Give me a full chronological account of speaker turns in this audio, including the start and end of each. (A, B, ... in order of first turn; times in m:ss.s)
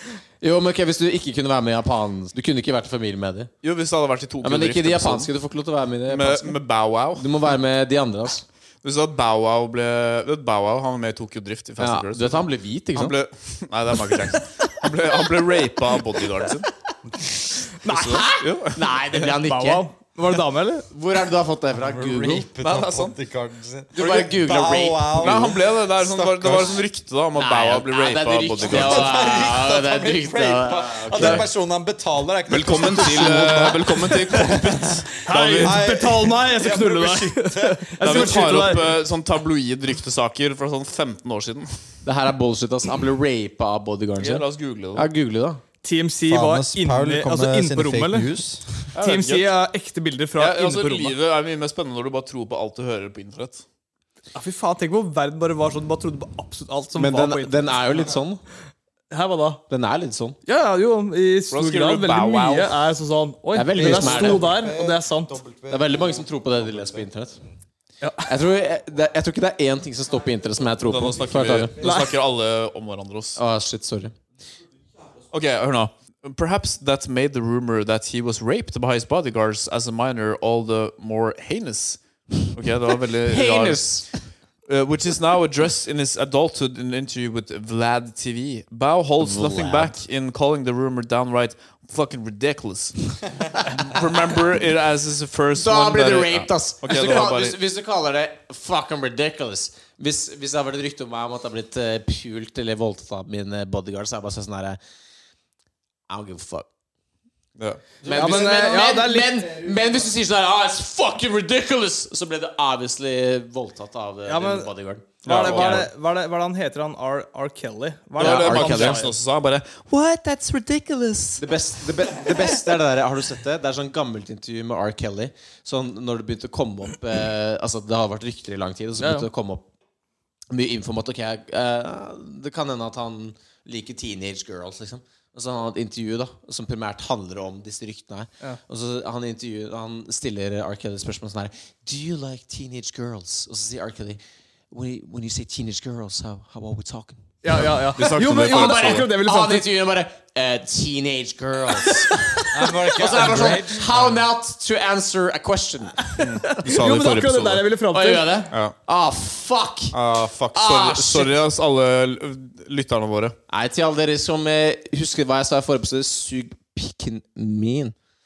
0:00.4-0:03.5 A
0:03.6-0:05.3 B
0:04.4-0:06.6 A
0:06.1-0:07.3 B
0:07.2-0:08.4 A
0:08.8-0:16.7 B
0:11.8-0:13.2 A
0:17.8-0:18.3 C
0:17.9-0:18.9 B
0:17.9-0:19.9 A
0:19.3-0:20.9 C
0:20.9-0:22.5 A
0:21.8-0:26.8 D
0:22.6-0:23.2 B
0:24.0-0:25.6 A
0:25.2-0:29.2 B
0:27.4-0:31.5 A
0:28.6-0:38.7 D
0:31.2-0:31.4 B
0:32.5-0:35.8 B
0:35.3-0:38.9 C
0:38.0-0:41.8 B
0:42.0-0:45.6 A
0:44.2-0:45.1 B
0:45.8-0:48.3 C
0:46.3-0:48.8 D
0:48.9-0:49.5 B
0:49.0-0:51.2 C
0:50.4-0:53.6 B
0:54.3-0:58.1 C
0:57.0-0:58.4 A
0:59.1-0:59.6 C
0:59.7-1:00.4 A
1:00.5-1:05.4 C
1:01.5-1:02.8 B
1:03.5-1:04.5 A
1:03.8-1:06.4 D
1:05.7-1:07.4 A
1:08.0-1:08.3 C
1:08.2-1:11.8 A
1:10.9-1:13.4 B
1:11.8-1:12.1 C
1:13.4-1:14.2 A
1:15.3-1:23.9 B
1:23.3-1:24.1 A
1:24.7-1:37.6 B
1:29.2-1:30.0 A
1:35.6-1:44.8 A
1:46.1-1:46.7 A
1:47.6-1:47.9 B
1:48.0-1:55.9 A
1:48.1-1:49.8 C
1:54.3-1:54.7 C
1:55.2-1:59.2 C
1:55.2-1:55.9 B
1:58.2-2:01.4 B
1:58.2-1:59.0 A
2:01.4-2:09.7 A
2:02.0-2:02.3 D
2:09.0-2:09.3 C
2:10.5-2:24.2 A
2:24.7-2:27.2 A
2:27.4-2:29.7 C
2:27.5-2:29.1 B
2:28.4-2:36.1 A
2:32.5-2:34.2 D
2:36.1-2:38.5 C
2:36.2-2:37.7 B
2:37.9-2:40.0 A
2:39.9-2:43.4 B
2:40.5-2:41.4 A
2:43.5-2:48.0 A